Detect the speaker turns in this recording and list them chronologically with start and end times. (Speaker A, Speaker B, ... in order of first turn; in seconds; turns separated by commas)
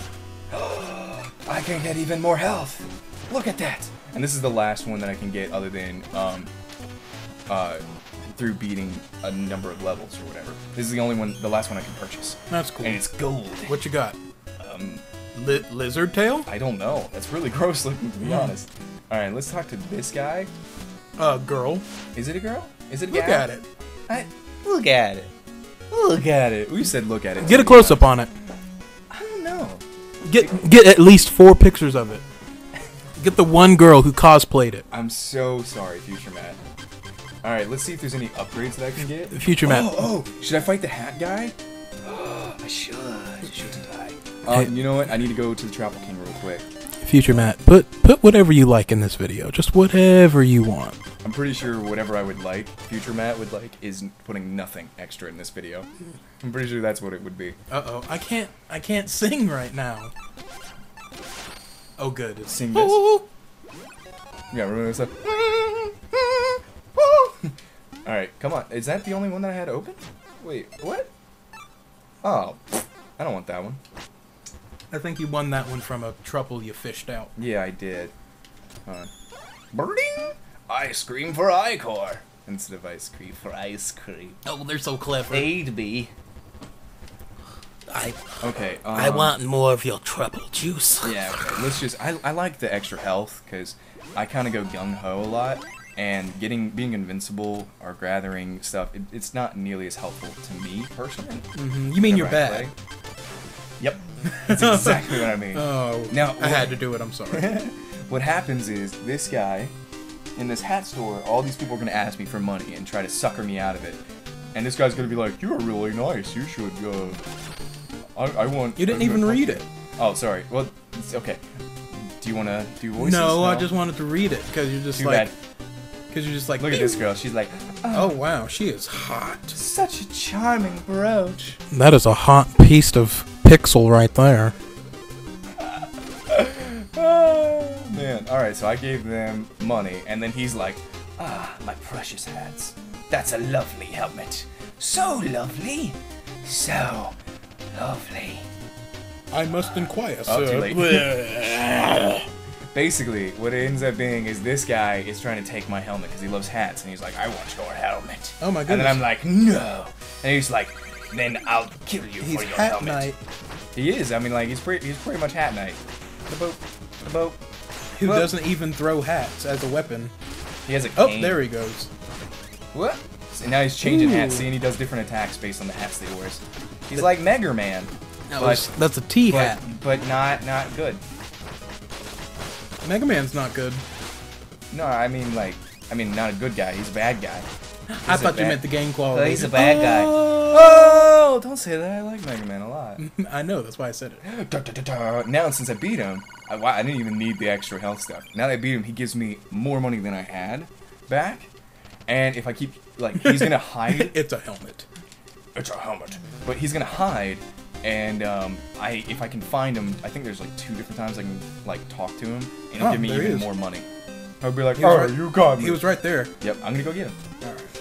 Speaker A: 0.5-6.5, Speaker A: 7.5-13.8, Speaker B: 12.5-13.0, Speaker B: 13.7-14.2, Speaker A: 14.6-15.0, Speaker B: 15.3-16.5, Speaker A: 16.5-20.5, Speaker B: 18.2-18.5, Speaker B: 21.2-21.9, Speaker A: 22.1-23.5, Speaker B: 23.1-23.6, Speaker A: 24.1-25.3, Speaker A: 25.9-28.1, Speaker B: 27.4-28.3, Speaker A: 29.1-29.8, Speaker B: 30.2-32.2, Speaker B: 33.2-34.9, Speaker A: 34.9-36.6, Speaker A: 37.4-46.7, Speaker B: 39.3-40.1, Speaker B: 47.0-51.0, Speaker A: 51.2-55.9, Speaker A: 56.4-57.6, Speaker B: 57.7-60.1, Speaker B: 62.0-63.2, Speaker A: 62.5-63.2, Speaker A: 64.5-67.5, Speaker A: 68.1-71.1, Speaker A: 72.2-73.8, Speaker B: 74.9-77.3, Speaker A: 77.4-78.1, Speaker A: 79.7-84.4, Speaker B: 84.5-85.5, Speaker A: 85.3-86.1, Speaker C: 87.9-88.2, Speaker A: 88.4-89.4, Speaker C: 89.0-91.2, Speaker A: 91.0-102.7, Speaker B: 101.5-102.7, Speaker A: 103.8-106.8, Speaker B: 104.4-107.5, Speaker A: 107.3-109.7, Speaker A: 110.4-114.0, Speaker A: 114.5-117.2, Speaker A: 118.2-121.4, Speaker B: 118.8-119.7, Speaker A: 121.9-123.7, Speaker B: 123.0-125.3, Speaker A: 125.0-125.4, Speaker B: 126.1-127.0, Speaker A: 126.6-128.2, Speaker B: 127.9-129.6, Speaker A: 129.5-131.6, Speaker B: 131.7-134.6, Speaker A: 135.6-147.2, Speaker A: 147.7-148.5, Speaker B: 149.3-152.2, Speaker A: 150.2-151.4, Speaker A: 152.7-163.1, Speaker B: 158.4-159.0, Speaker B: 162.2-163.2, Speaker A: 163.8-167.4, Speaker B: 168.0-170.1, Speaker A: 168.0-168.3, Speaker A: 170.7-171.4, Speaker B: 171.0-171.9, Speaker A: 172.7-178.7, Speaker B: 173.8-174.5, Speaker B: 178.3-179.6, Speaker A: 179.3-181.0, Speaker B: 182.8-183.8, Speaker A: 184.7-187.5, Speaker B: 187.9-191.1, Speaker A: 188.1-193.0, Speaker B: 193.0-194.2, Speaker A: 194.2-201.5, Speaker A: 202.1-204.2, Speaker B: 203.2-204.9, Speaker A: 205.6-213.9, Speaker B: 212.8-213.5, Speaker A: 214.4-215.9, Speaker B: 214.8-216.3, Speaker A: 216.4-217.5